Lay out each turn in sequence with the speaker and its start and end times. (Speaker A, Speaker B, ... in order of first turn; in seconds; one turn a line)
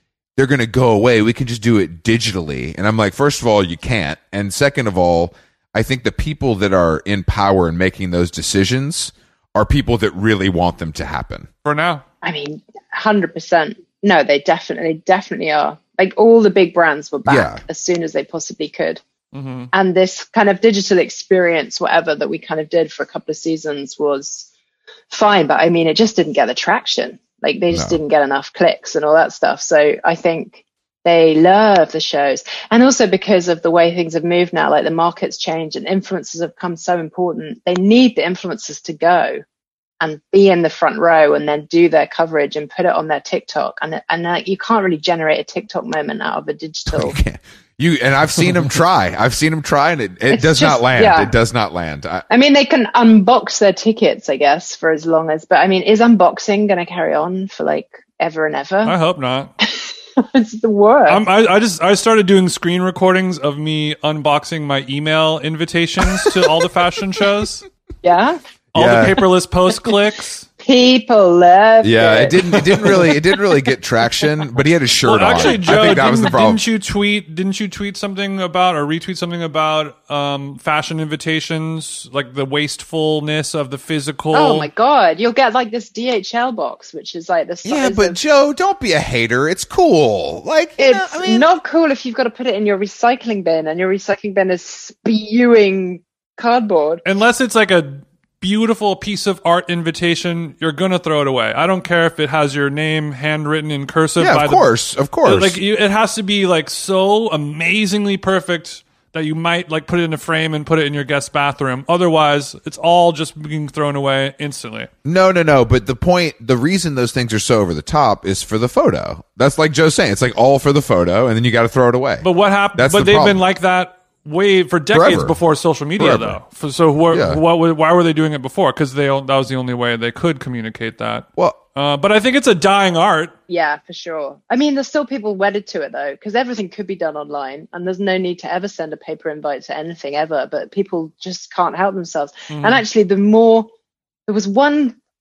Speaker A: 0.3-11.5
Speaker B: 11.6-12.0
Speaker C: 12.2-19.0
Speaker A: 17.2-17.6
Speaker B: 19.3-19.7
Speaker C: 19.7-24.5
Speaker C: 25.1-39.4
Speaker A: 27.7-28.0
Speaker C: 40.0-47.2
Speaker A: 46.9-52.2
Speaker C: 50.3-51.3
Speaker C: 52.3-58.9
Speaker B: 58.8-59.5
Speaker C: 59.6-61.2
Speaker B: 61.1-67.6
Speaker C: 68.0-68.4
Speaker B: 68.7-70.5
Speaker A: 68.7-69.2
Speaker C: 70.6-72.9
Speaker A: 71.8-76.6
Speaker B: 75.0-84.7
Speaker C: 84.3-88.2
Speaker A: 87.6-91.5
Speaker C: 90.8-97.0
Speaker B: 97.0-104.7
Speaker A: 104.2-105.6
Speaker B: 105.2-114.9
Speaker A: 115.0-123.4
Speaker B: 122.2-133.3
Speaker A: 124.9-125.4
Speaker A: 126.0-126.4
Speaker A: 127.1-127.4
Speaker C: 133.5-143.7
Speaker B: 142.5-142.8
Speaker C: 144.3-145.0